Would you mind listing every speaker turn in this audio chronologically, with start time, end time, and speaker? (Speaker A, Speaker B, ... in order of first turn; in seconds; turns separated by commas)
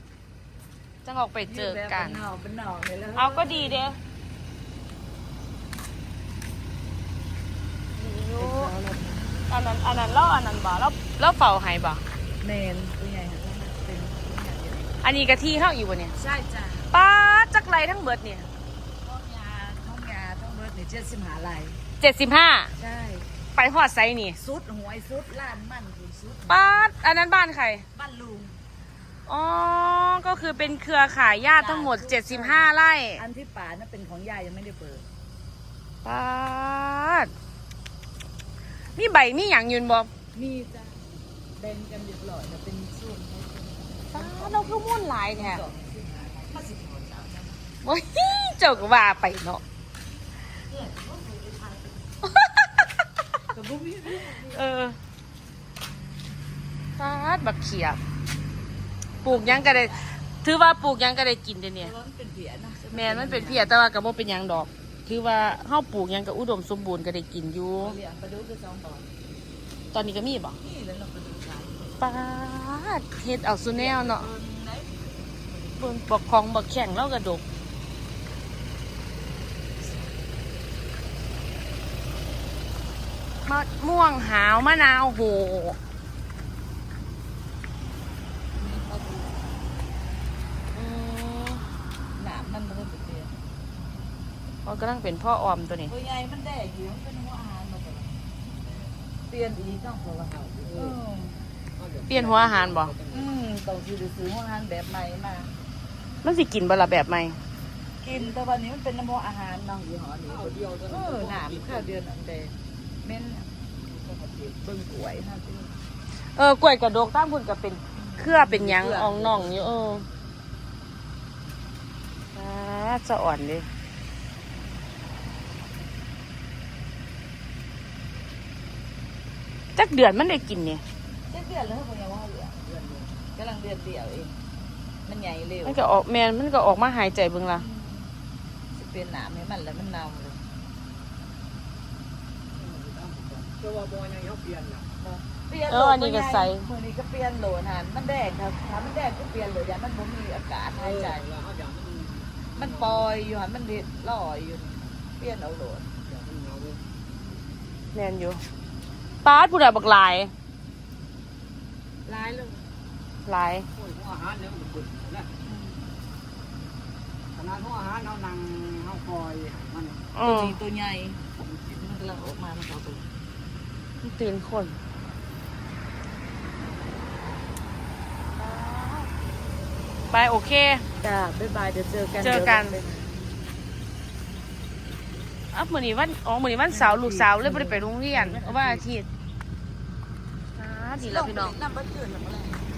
Speaker A: 1.0-2.2, Speaker B: 1.4-3.9, Speaker A: 3.1-4.0, Speaker A: 7.9-8.9, Speaker B: 8.4-9.2, Speaker A: 9.5-12.0, Speaker B: 12.4-15.0, Speaker A: 15.0-16.1, Speaker B: 16.1-16.9, Speaker A: 16.9-18.5, Speaker B: 19.0-21.8, Speaker A: 22.0-22.7, Speaker B: 22.8-23.3, Speaker A: 23.6-24.4, Speaker B: 24.4-26.9, Speaker A: 26.5-27.8, Speaker B: 27.9-28.6, Speaker A: 29.3-33.2, Speaker B: 31.6-35.0, Speaker A: 36.0-37.3, Speaker A: 39.0-40.1, Speaker B: 40.3-41.0, Speaker B: 41.6-47.6, Speaker A: 44.1-45.6, Speaker A: 47.8-49.6, Speaker B: 50.5-52.1, Speaker A: 52.2-52.7, Speaker B: 53.5-54.6, Speaker A: 54.5-55.0, Speaker A: 57.0-58.0, Speaker B: 59.2-60.1, Speaker A: 59.2-61.9, Speaker B: 61.8-63.7, Speaker A: 62.9-68.0, Speaker B: 67.8-69.1, Speaker A: 69.9-70.6, Speaker B: 70.6-72.1, Speaker A: 72.0-74.3, Speaker B: 73.7-76.0, Speaker A: 75.8-77.4, Speaker A: 83.5-85.8, Speaker B: 88.6-89.6, Speaker A: 90.7-91.6, Speaker B: 92.2-93.3, Speaker A: 94.6-95.9, Speaker B: 95.9-98.1, Speaker B: 99.3-101.4, Speaker C: 101.8-103.2, Speaker A: 102.1-102.9, Speaker B: 103.1-105.5, Speaker A: 106.2-107.4, Speaker B: 108.0-113.5, Speaker C: 110.6-111.4, Speaker C: 114.0-114.4, Speaker B: 114.6-115.7, Speaker A: 116.3-120.0, Speaker B: 118.0-120.1, Speaker A: 122.3-123.7, Speaker A: 129.7-130.8, Speaker B: 131.3-134.4, Speaker B: 135.0-135.8, Speaker A: 135.6-137.6, Speaker B: 137.5-138.1, Speaker B: 138.7-140.4, Speaker C: 142.6-144.8, Speaker B: 145.0-151.3, Speaker A: 145.7-146.7, Speaker C: 151.1-152.7, Speaker B: 152.5-155.9, Speaker C: 156.1-156.8, Speaker A: 157.9-158.4, Speaker A: 159.2-160.3, Speaker B: 162.1-162.6, Speaker A: 163.2-163.7, Speaker C: 163.8-165.3, Speaker B: 165.4-165.9, Speaker C: 167.3-170.0, Speaker A: 170.1-170.6, Speaker B: 170.2-173.0, Speaker A: 174.0-174.8, Speaker B: 178.4-179.1, Speaker A: 180.1-180.8, Speaker B: 181.0-183.1, Speaker A: 182.2-182.8, Speaker A: 185.5-189.1, Speaker B: 186.7-188.8, Speaker A: 190.6-191.5, Speaker B: 191.0-192.7